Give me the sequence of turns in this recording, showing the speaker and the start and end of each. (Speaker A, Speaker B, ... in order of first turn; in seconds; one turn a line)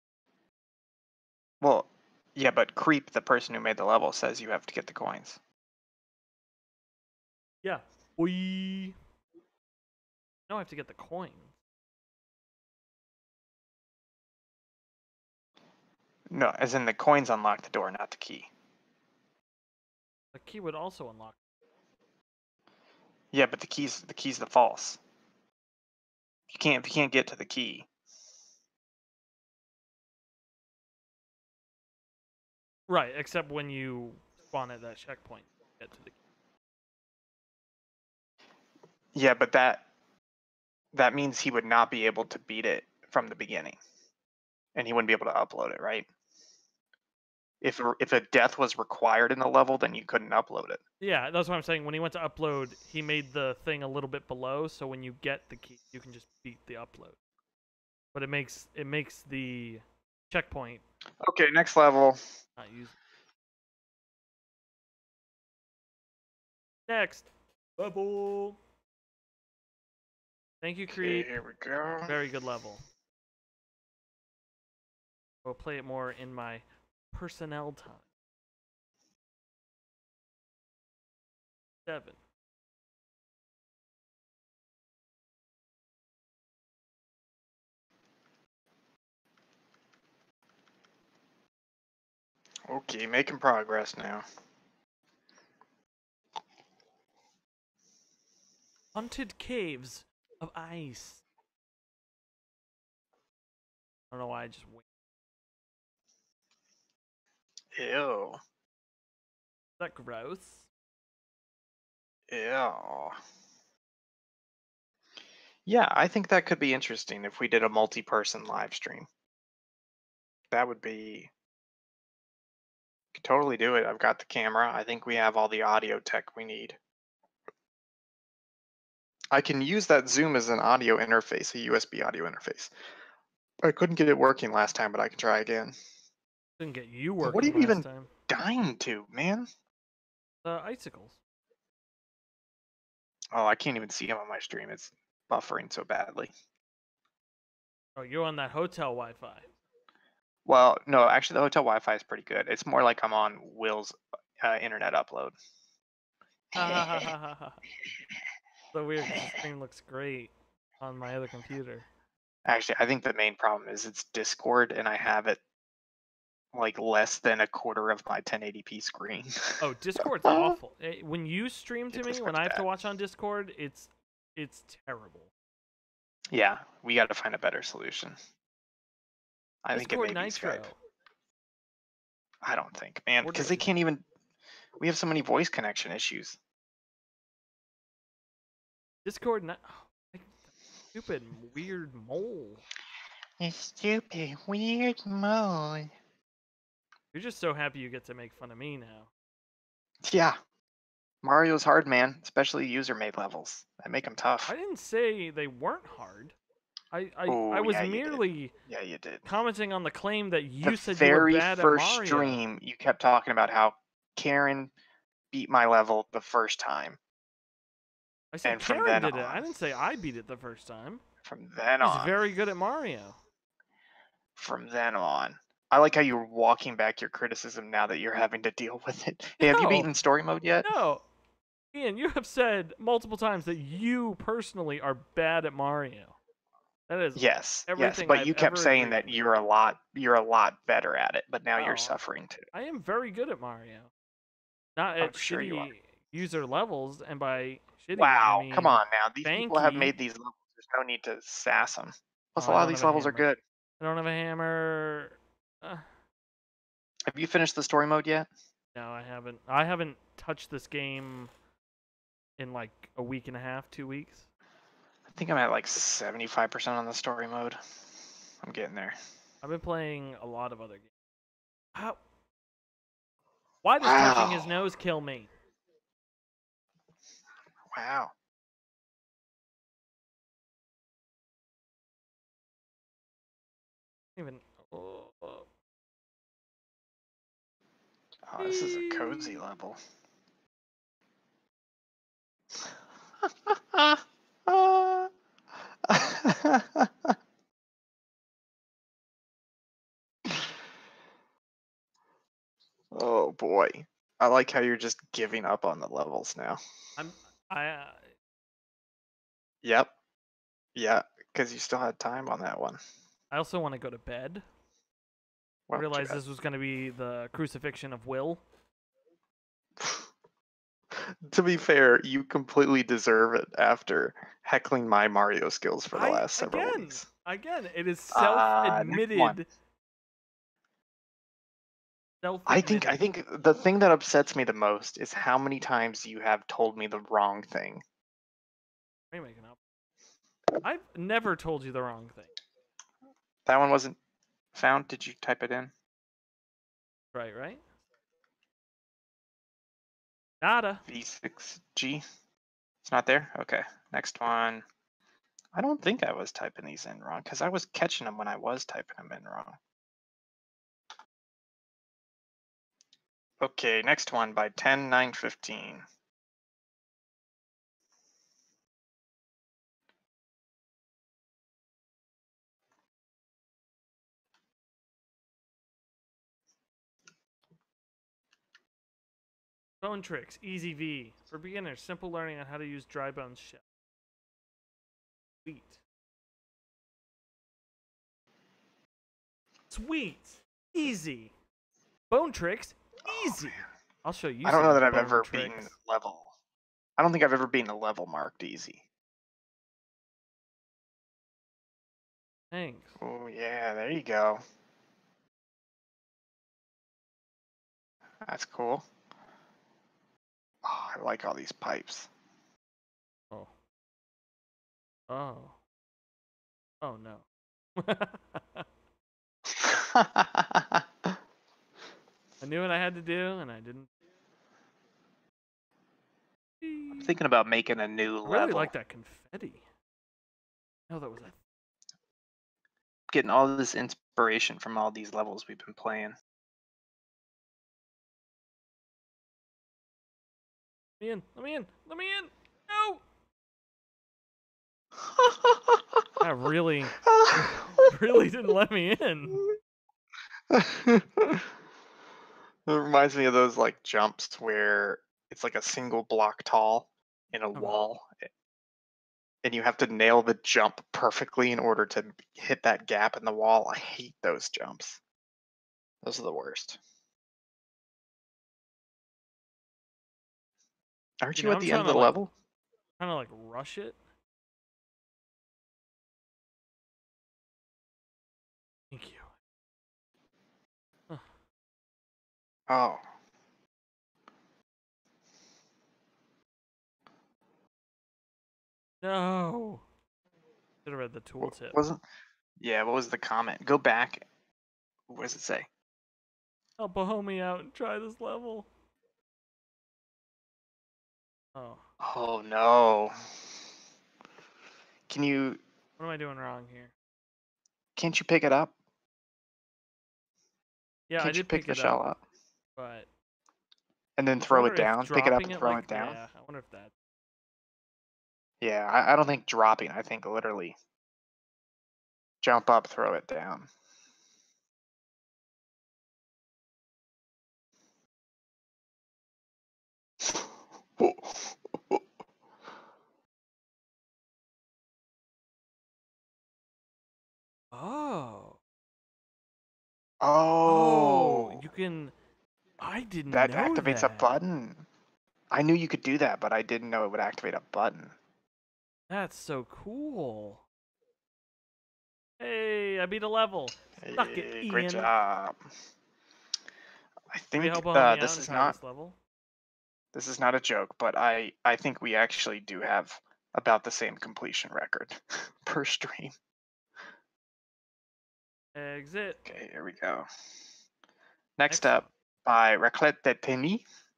Speaker A: 1.6-5.4
Speaker B: 7.6-9.0
Speaker B: 10.5-11.6
Speaker A: 16.3-18.5
Speaker B: 20.3-21.4
Speaker A: 23.3-25.0
Speaker A: 26.5-27.9
Speaker B: 32.9-36.1
Speaker A: 39.1-39.9
Speaker A: 40.9-43.8
Speaker A: 44.8-46.1
Speaker A: 47.6-50.8
Speaker B: 51.0-57.2
Speaker B: 58.1-60.8
Speaker A: 61.2-62.2
Speaker B: 62.6-63.0
Speaker B: 66.9-68.6
Speaker B: 70.6-71.3
Speaker A: 70.9-72.2
Speaker B: 72.1-72.8
Speaker B: 75.5-78.0
Speaker B: 81.9-82.2
Speaker A: 92.7-94.2
Speaker B: 99.0-101.2
Speaker B: 104.1-104.8
Speaker A: 107.8-108.4
Speaker B: 109.8-110.7
Speaker A: 112.3-113.2
Speaker A: 115.7-119.1
Speaker A: 120.5-121.3
Speaker A: 123.1-126.8
Speaker A: 129.3-132.7
Speaker A: 133.6-135.8
Speaker B: 136.6-138.1
Speaker A: 137.2-139.5
Speaker B: 140.4-141.2
Speaker A: 143.3-146.3
Speaker B: 148.0-149.5
Speaker A: 150.5-155.3
Speaker A: 156.5-157.1
Speaker B: 156.6-157.6
Speaker B: 158.7-161.9
Speaker A: 159.1-159.4
Speaker A: 162.5-165.4
Speaker A: 166.5-169.6
Speaker B: 169.6-175.3
Speaker A: 170.2-170.6
Speaker A: 171.9-172.6
Speaker A: 176.3-178.2
Speaker A: 179.6-180.7
Speaker B: 179.8-180.8
Speaker A: 182.4-184.0
Speaker B: 183.2-183.7
Speaker A: 184.8-186.4
Speaker B: 189.1-190.4
Speaker B: 190.9-192.6
Speaker A: 193.4-195.9
Speaker B: 197.1-199.1
Speaker A: 200.0-200.4
Speaker A: 201.2-204.5
Speaker B: 204.5-206.3
Speaker B: 206.9-208.6
Speaker A: 207.3-209.2
Speaker B: 209.2-212.4
Speaker A: 210.7-214.7
Speaker A: 215.3-217.0
Speaker B: 218.3-221.0
Speaker A: 218.4-219.4
Speaker A: 221.2-222.1
Speaker B: 221.8-223.2
Speaker A: 224.4-230.7
Speaker B: 229.4-229.9
Speaker B: 230.6-231.1
Speaker B: 231.7-236.2
Speaker B: 236.9-239.2
Speaker A: 237.2-242.5
Speaker B: 241.6-242.0
Speaker B: 242.5-243.9
Speaker B: 244.8-249.9
Speaker A: 245.0-245.7
Speaker A: 248.0-253.4
Speaker B: 252.4-253.3
Speaker B: 253.8-255.9
Speaker A: 257.1-258.3
Speaker B: 258.8-261.3
Speaker B: 262.4-264.3
Speaker A: 265.1-267.6
Speaker A: 268.4-269.0
Speaker B: 269.4-270.9
Speaker B: 273.6-275.3
Speaker A: 273.8-274.5
Speaker A: 277.7-278.1
Speaker B: 284.2-285.5
Speaker A: 288.3-289.8
Speaker B: 288.4-289.4
Speaker A: 293.2-295.1
Speaker A: 295.9-297.1
Speaker A: 302.9-306.6
Speaker B: 307.0-308.1
Speaker A: 309.6-309.9
Speaker A: 310.8-312.8
Speaker B: 313.3-314.4
Speaker A: 315.7-316.2
Speaker B: 315.8-318.4
Speaker A: 319.8-320.1
Speaker A: 320.9-327.1
Speaker B: 325.9-329.5
Speaker A: 328.1-329.4
Speaker B: 332.2-333.0
Speaker A: 332.5-337.8
Speaker B: 339.1-339.6
Speaker B: 340.6-342.3
Speaker A: 343.5-344.0
Speaker A: 344.5-345.7
Speaker B: 347.1-347.6
Speaker B: 350.4-350.8
Speaker A: 350.9-352.0
Speaker A: 352.8-354.6
Speaker A: 355.6-359.6
Speaker A: 363.4-365.9
Speaker B: 379.8-383.6
Speaker B: 385.4-385.8
Speaker B: 389.7-391.3
Speaker B: 392.1-395.7
Speaker A: 393.1-393.6
Speaker A: 394.4-396.3
Speaker A: 397.0-398.8
Speaker B: 402.5-403.0
Speaker A: 403.0-404.4
Speaker A: 408.2-408.9
Speaker A: 410.6-412.1
Speaker B: 415.1-415.6
Speaker B: 416.8-417.2
Speaker B: 417.8-418.7
Speaker A: 419.5-420.9
Speaker B: 422.4-423.9
Speaker B: 426.6-427.1
Speaker A: 426.9-428.7
Speaker B: 428.2-429.6
Speaker B: 430.9-431.4
Speaker A: 433.1-436.2
Speaker B: 441.0-443.0
Speaker A: 445.2-445.8
Speaker B: 446.2-449.4
Speaker A: 447.1-447.9
Speaker A: 450.5-451.5
Speaker A: 452.7-458.2
Speaker B: 457.6-457.8
Speaker A: 459.4-465.0
Speaker A: 466.0-466.8
Speaker A: 471.2-472.3
Speaker B: 471.4-472.2
Speaker B: 473.0-474.0
Speaker B: 478.9-479.3
Speaker A: 482.7-483.0
Speaker B: 489.0-489.8
Speaker B: 490.9-491.8
Speaker A: 491.4-492.0
Speaker A: 492.6-494.2
Speaker A: 495.1-495.7
Speaker B: 496.8-498.7
Speaker B: 501.6-501.8
Speaker A: 502.0-503.2
Speaker A: 505.1-505.6
Speaker B: 506.0-506.9
Speaker A: 508.0-508.7
Speaker B: 511.1-512.0
Speaker A: 511.2-512.2
Speaker B: 512.8-513.1
Speaker A: 514.2-516.2
Speaker B: 514.5-516.9
Speaker A: 518.6-520.8
Speaker A: 522.4-523.7
Speaker A: 530.2-532.0
Speaker B: 537.7-538.6
Speaker A: 540.2-541.6
Speaker B: 540.6-542.1
Speaker B: 542.8-544.3
Speaker A: 543.3-544.9
Speaker A: 545.5-548.1
Speaker B: 549.1-550.6
Speaker B: 552.4-555.1
Speaker A: 554.0-555.6
Speaker A: 557.3-558.8
Speaker B: 557.5-559.2
Speaker A: 560.1-566.4
Speaker B: 568.8-569.4
Speaker A: 569.5-570.3
Speaker A: 571.6-573.9
Speaker B: 571.7-572.1